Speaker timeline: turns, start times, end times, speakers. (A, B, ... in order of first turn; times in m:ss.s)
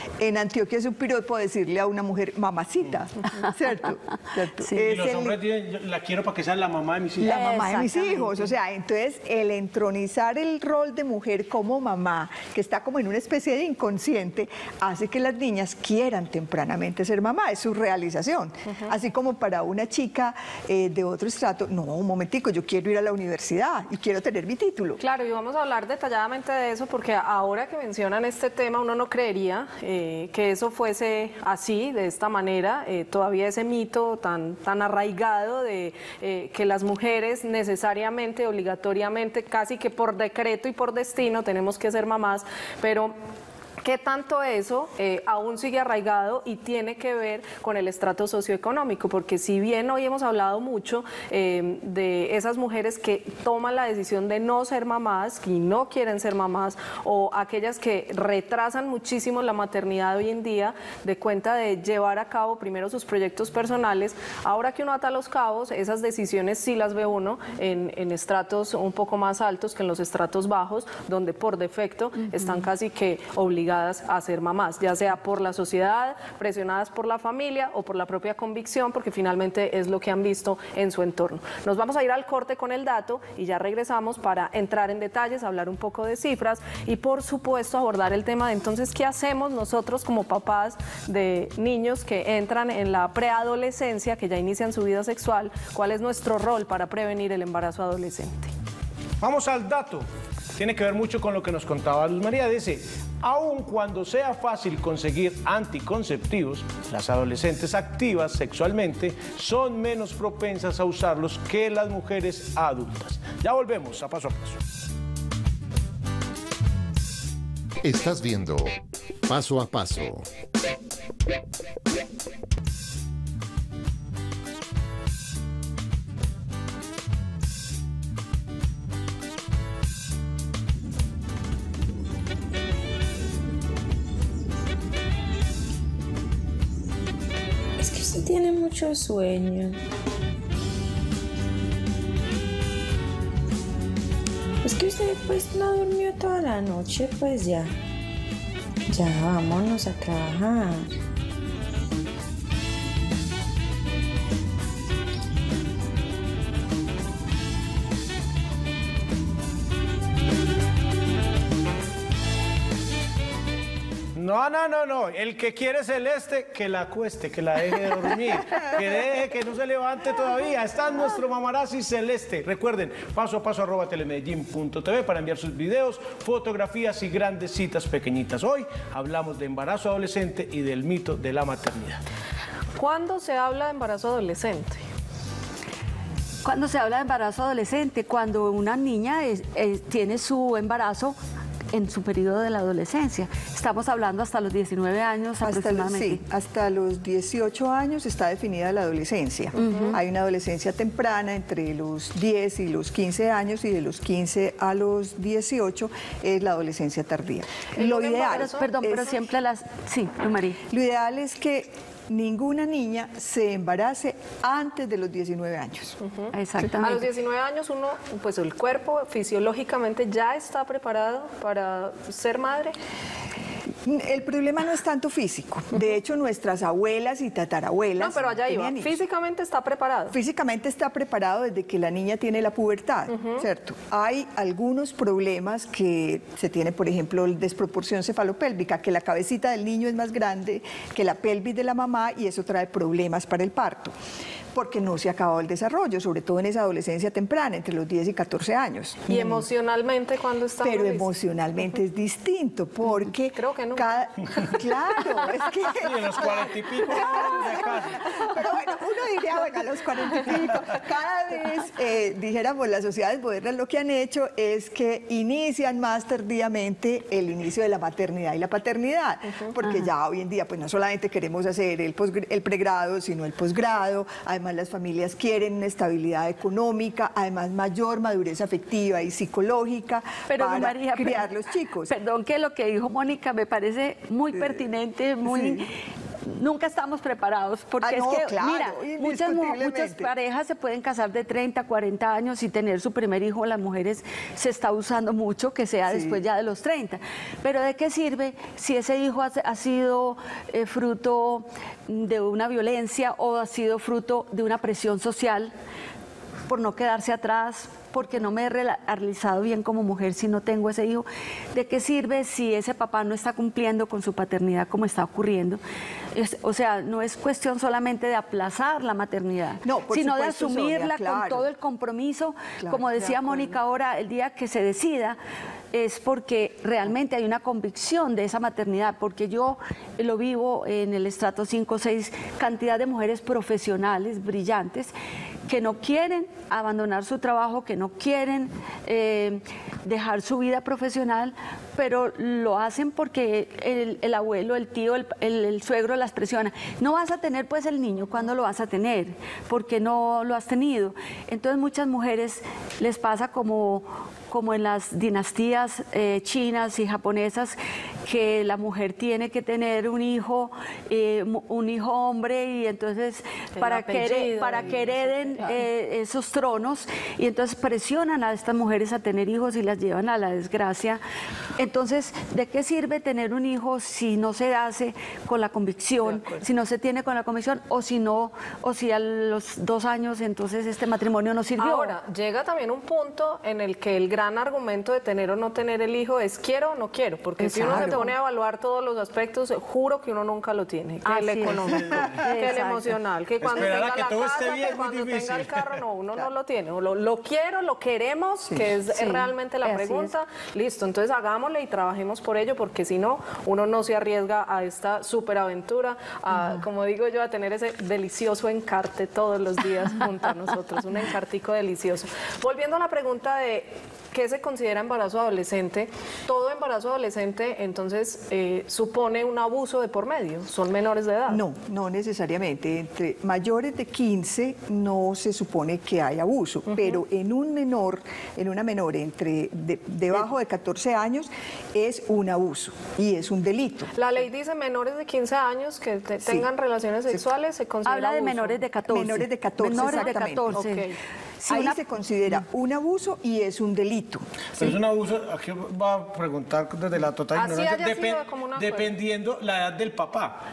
0:00.2-0:05.4 A
0:04.8-0:07.4 B
0:07.2-0:25.0 A
0:07.3-0:08.4 C
0:25.0-0:43.1 D
0:43.8-1:38.5 D
1:39.2-1:40.0 B
1:40.6-1:54.6 B
1:57.8-2:00.2 E
2:17.8-2:19.8 F
2:24.6-2:27.7 F
2:28.9-2:30.9 F
2:44.1-3:02.0 B
3:02.8-3:04.8 D
3:06.4-3:11.2 C
3:11.7-3:16.2 C
3:15.4-3:29.2 A
3:19.5-3:20.0 D
3:19.6-3:20.0 C
3:27.7-3:28.7 D
3:28.2-3:30.6 C
3:30.7-3:36.0 A
3:36.0-3:42.7 D
3:36.3-3:37.0 C
3:43.8-3:49.0 A
3:48.0-3:50.2 D
3:50.1-4:03.9 A
3:53.1-3:53.4 D
4:04.5-4:09.5 A
4:09.1-4:11.1 D
4:10.6-4:41.9 A
4:13.3-4:14.5 D
4:15.7-4:18.3 B
4:29.6-4:29.9 C
4:40.3-4:41.2 C
4:41.9-4:45.7 C
4:45.2-4:45.6 A
4:46.2-5:05.5 C
4:47.8-4:50.1 A
4:55.9-4:56.2 A
5:06.5-5:15.6 C
5:16.1-5:25.2 C
5:19.6-5:21.4 A
5:22.6-5:23.5 A
5:25.7-5:34.9 C
5:35.5-6:11.0 C
6:03.6-6:05.5 D
6:11.6-6:21.9 C
6:16.0-6:16.4 D
6:21.6-7:01.4 D
6:27.4-6:28.1 C
6:27.6-6:28.0 A
6:31.0-6:33.0 C
6:31.7-6:32.2 B
6:33.4-6:35.8 B
6:38.9-6:40.1 C
7:01.3-7:13.9 A
7:06.7-7:07.0 D
7:13.9-7:18.6 D
7:16.2-7:16.5 A
7:17.8-7:20.9 C
7:18.9-7:20.6 A
7:19.7-7:21.0 D
7:21.4-7:21.8 C
7:21.4-7:24.7 A
7:24.6-7:30.4 B
7:27.3-7:28.9 D